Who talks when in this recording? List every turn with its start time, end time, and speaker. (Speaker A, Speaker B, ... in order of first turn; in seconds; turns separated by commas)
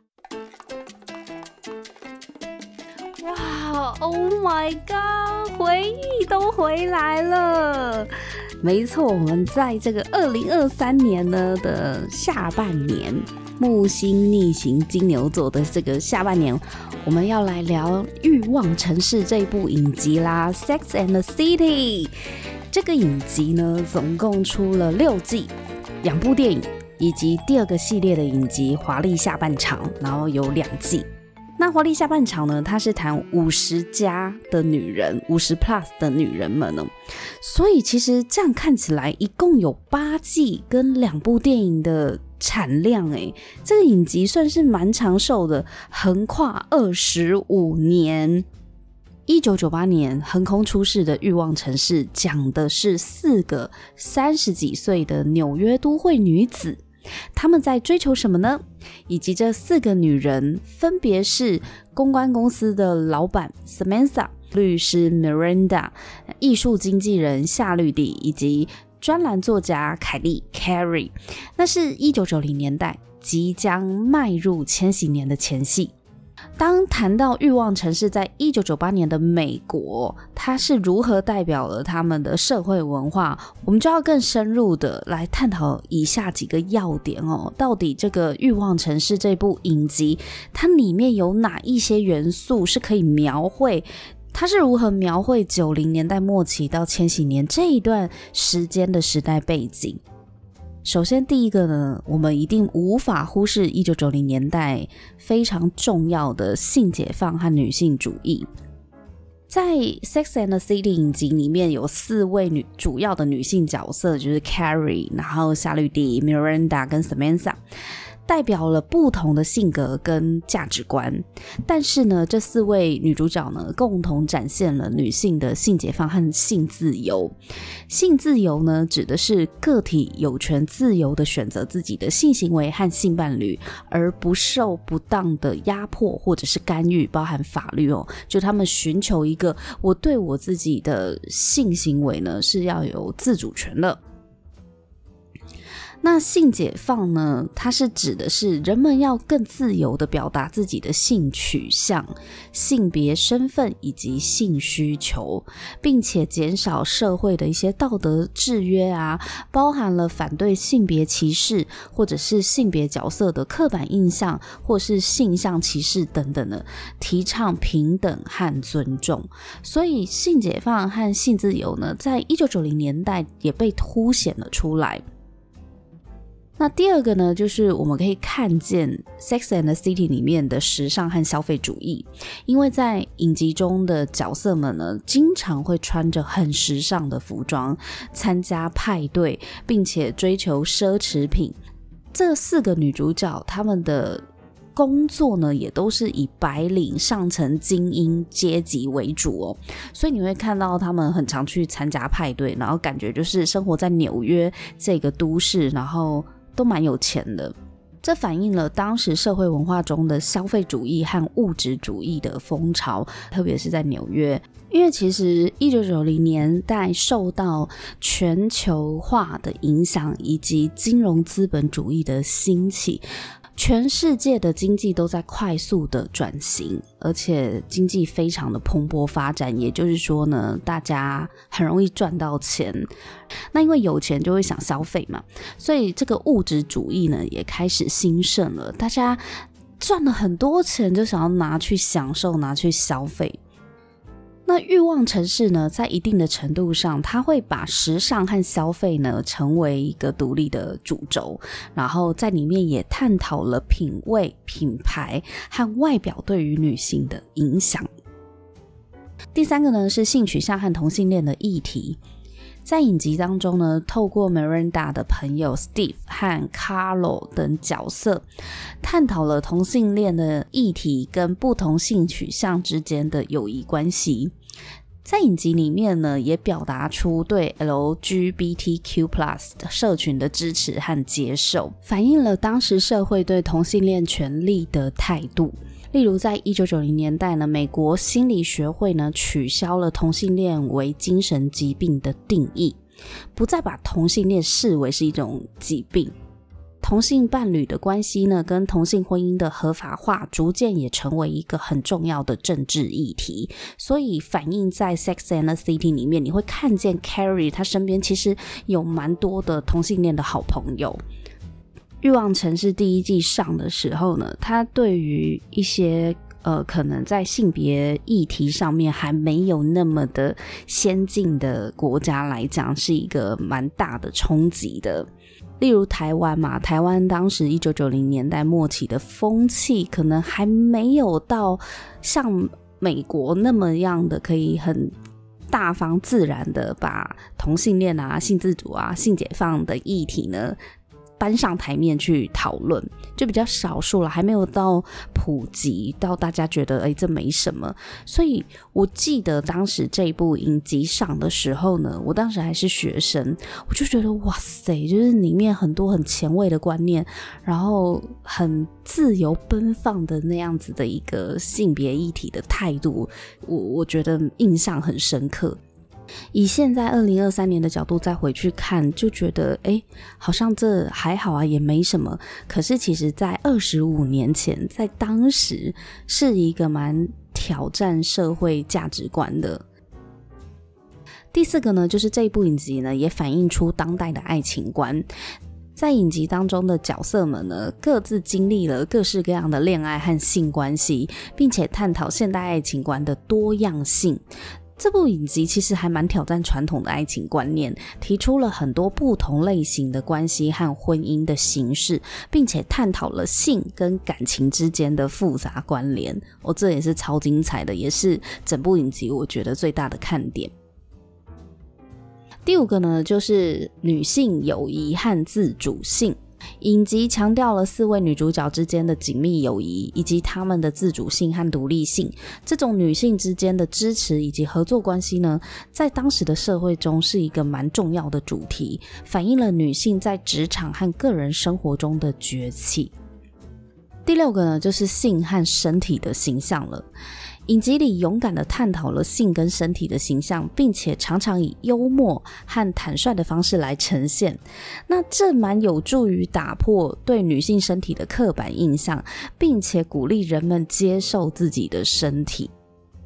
Speaker A: 3.2-8.1, Speaker A: 8.6-22.1, Speaker A: 22.7-48.5, Speaker A: 49.3-56.8, Speaker A: 57.3-75.9, Speaker A: 76.6-100.0, Speaker A: 100.8-108.5, Speaker A: 109.5-117.6, Speaker A: 118.3-127.3, Speaker A: 127.9-144.0, Speaker A: 146.0-175.0, Speaker A: 176.6-191.6, Speaker A: 192.1-223.0, Speaker A: 223.6-232.9, Speaker A: 233.5-239.2, Speaker A: 239.8-243.4, Speaker A: 244.5-257.9, Speaker A: 259.3-262.0, Speaker A: 262.6-268.2, Speaker A: 268.8-274.3, Speaker A: 275.0-292.8, Speaker A: 293.3-296.1, Speaker A: 296.8-311.0, Speaker A: 312.0-325.1, Speaker A: 325.6-334.9, Speaker A: 335.5-340.6, Speaker A: 341.2-365.6, Speaker A: 366.3-379.6, Speaker A: 381.3-385.1, Speaker A: 385.8-394.2, Speaker A: 394.8-410.5, Speaker A: 412.4-432.9, Speaker A: 434.1-436.9, Speaker A: 437.5-452.5